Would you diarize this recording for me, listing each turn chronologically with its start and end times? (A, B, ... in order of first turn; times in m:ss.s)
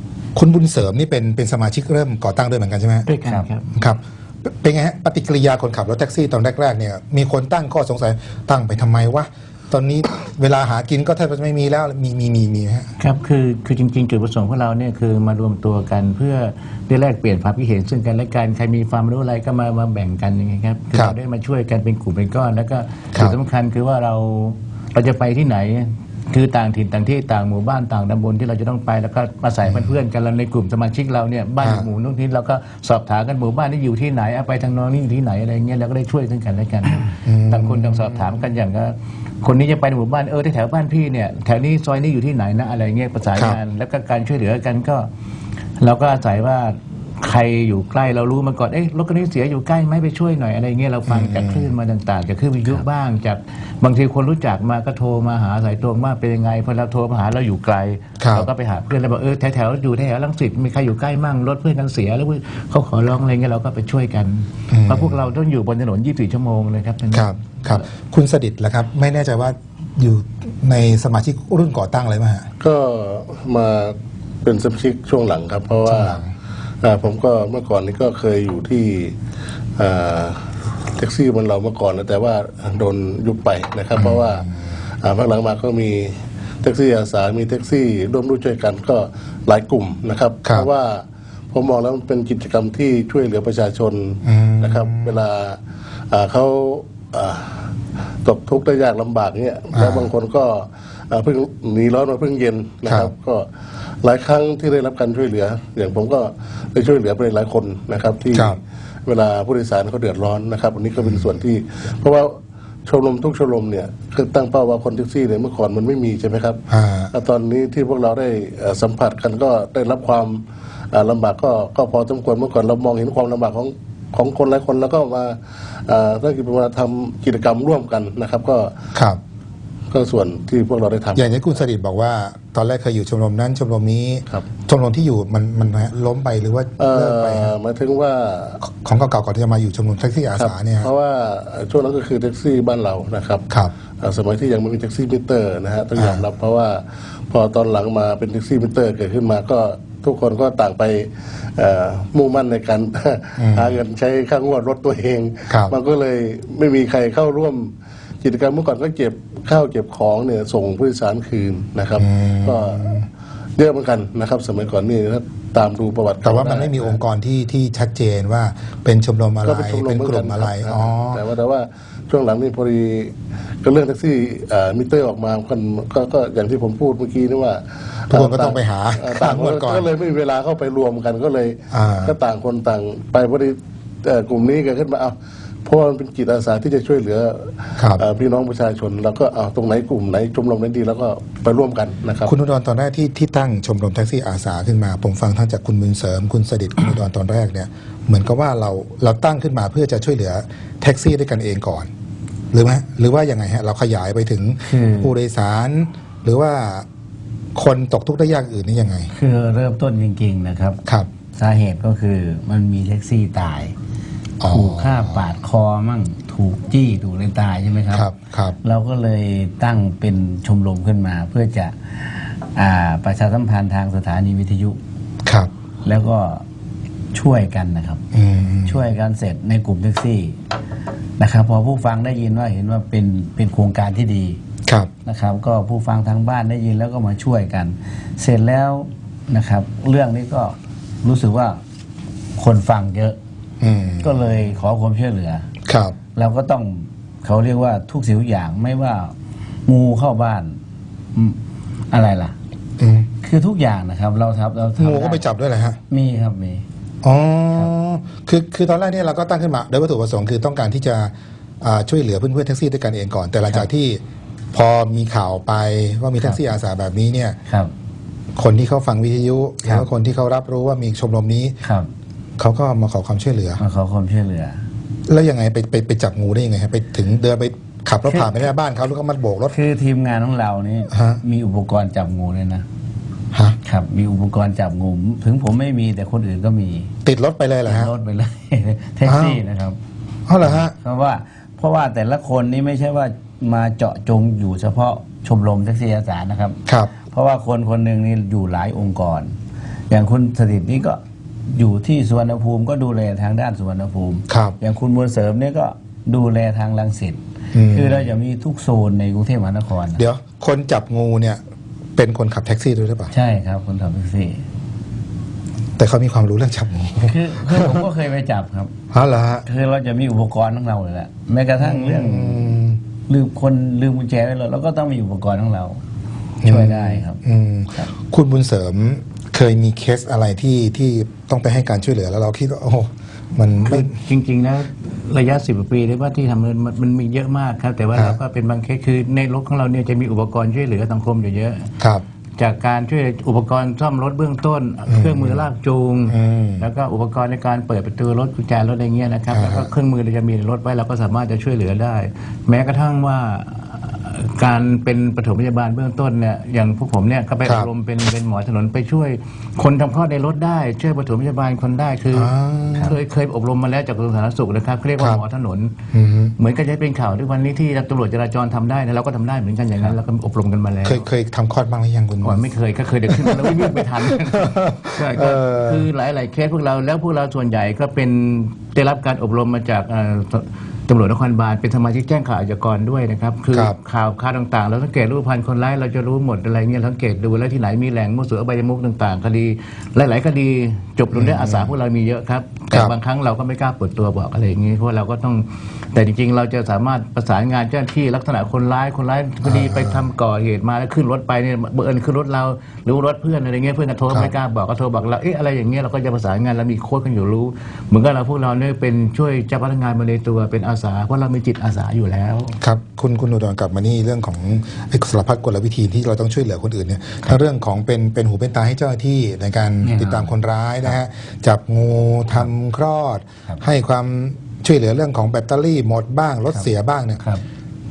0:00.3-0:03.1 A
0:03.0-0:03.6 B
0:03.7-0:12.9 A
0:13.0-0:45.1 B
0:29.7-0:30.0 A
0:31.6-0:31.9 A
0:37.2-0:38.3 A
0:43.3-0:43.6 A
0:45.8-1:07.3 B
0:51.1-0:51.7 A
0:58.2-0:58.5 A
1:04.7-1:05.2 A
1:07.1-1:12.5 A
1:12.6-1:16.2 C
1:15.8-1:16.3 A
1:16.8-1:19.2 C
1:19.8-1:35.6 C
1:24.0-1:24.7 A
1:34.2-1:35.2 A
1:36.1-1:37.7 C
1:38.2-1:43.5 C
1:39.7-1:40.0 A
1:42.8-1:43.1 A
1:44.0-1:52.3 C
1:48.3-1:48.6 A
1:52.8-2:08.8 C
1:56.7-1:57.1 A
2:08.9-2:09.2 A
2:09.9-2:11.4 C
2:11.2-2:17.5 A
2:16.8-2:18.6 C
2:18.6-2:20.9 A
2:20.4-2:23.5 C
2:24.0-2:43.0 C
2:25.9-2:26.2 A
2:33.4-2:33.8 A
2:35.5-2:35.7 A
2:42.0-2:43.1 A
2:43.6-2:47.0 C
2:46.2-2:51.2 A
2:49.4-3:12.3 C
2:58.1-2:59.9 A
3:01.7-3:02.1 A
3:07.8-3:08.0 A
3:12.2-3:21.9 A
3:22.5-3:26.8 A
3:24.6-3:25.1 D
3:27.5-3:29.1 A
3:29.1-3:30.8 D
3:31.3-3:33.7 D
3:34.4-3:35.2 A
3:34.5-3:38.1 D
3:37.9-3:38.6 A
3:38.6-3:44.8 D
3:45.8-3:46.4 D
3:47.1-3:48.0 D
3:48.1-3:48.8 A
3:48.6-3:50.4 D
3:51.2-3:54.4 D
3:55.0-4:01.6 D
4:02.4-4:03.2 D
4:03.6-4:04.2 A
4:04.0-4:05.5 D
4:05.6-4:06.0 A
4:06.1-4:09.1 D
4:09.6-4:10.6 D
4:11.1-4:12.4 D
4:12.8-4:13.1 A
4:13.2-4:15.2 D
4:14.8-4:15.8 A
4:15.9-4:16.6 D
4:17.0-4:24.0 A
4:24.5-4:27.4 A
4:26.2-4:26.5 D
4:27.5-4:27.7 D
4:28.3-4:31.6 A
4:31.6-4:31.9 D
4:32.4-4:33.6 A
4:33.6-4:34.6 D
4:35.1-4:39.6 A
4:38.1-4:38.3 D
4:39.5-4:42.6 D
4:40.9-4:41.2 A
4:43.6-4:46.9 D
4:47.0-4:47.9 A
4:47.6-4:49.8 D
4:49.0-4:49.4 A
4:50.3-4:50.7 A
4:50.4-4:59.3 D
4:56.7-4:56.9 A
4:59.9-5:10.0 D
5:04.3-5:04.6 A
5:07.5-5:08.1 A
5:09.9-5:11.4 A
5:12.0-5:13.1 A
5:13.1-5:14.4 D
5:15.8-5:17.9 A
5:17.0-5:18.7 D
5:18.9-5:19.4 A
5:19.4-5:25.8 D
5:21.6-5:22.8 A
5:26.4-5:34.0 A
5:26.4-5:27.2 D
5:33.6-5:41.7 B
5:37.9-5:38.2 A
5:41.8-5:42.0 A
5:42.4-6:05.7 B
5:44.9-5:45.4 A
5:46.1-5:46.7 A
5:49.3-5:49.7 A
5:57.4-5:57.7 A
6:02.1-6:03.0 A
6:05.9-6:06.3 A
6:06.4-6:11.0 B
6:10.8-6:12.5 A
6:12.2-6:52.6 B
6:13.1-6:15.9 A
6:31.1-6:31.8 A
6:39.4-6:40.1 A
6:52.6-7:07.2 A
6:59.8-7:00.9 D
7:06.5-7:07.4 D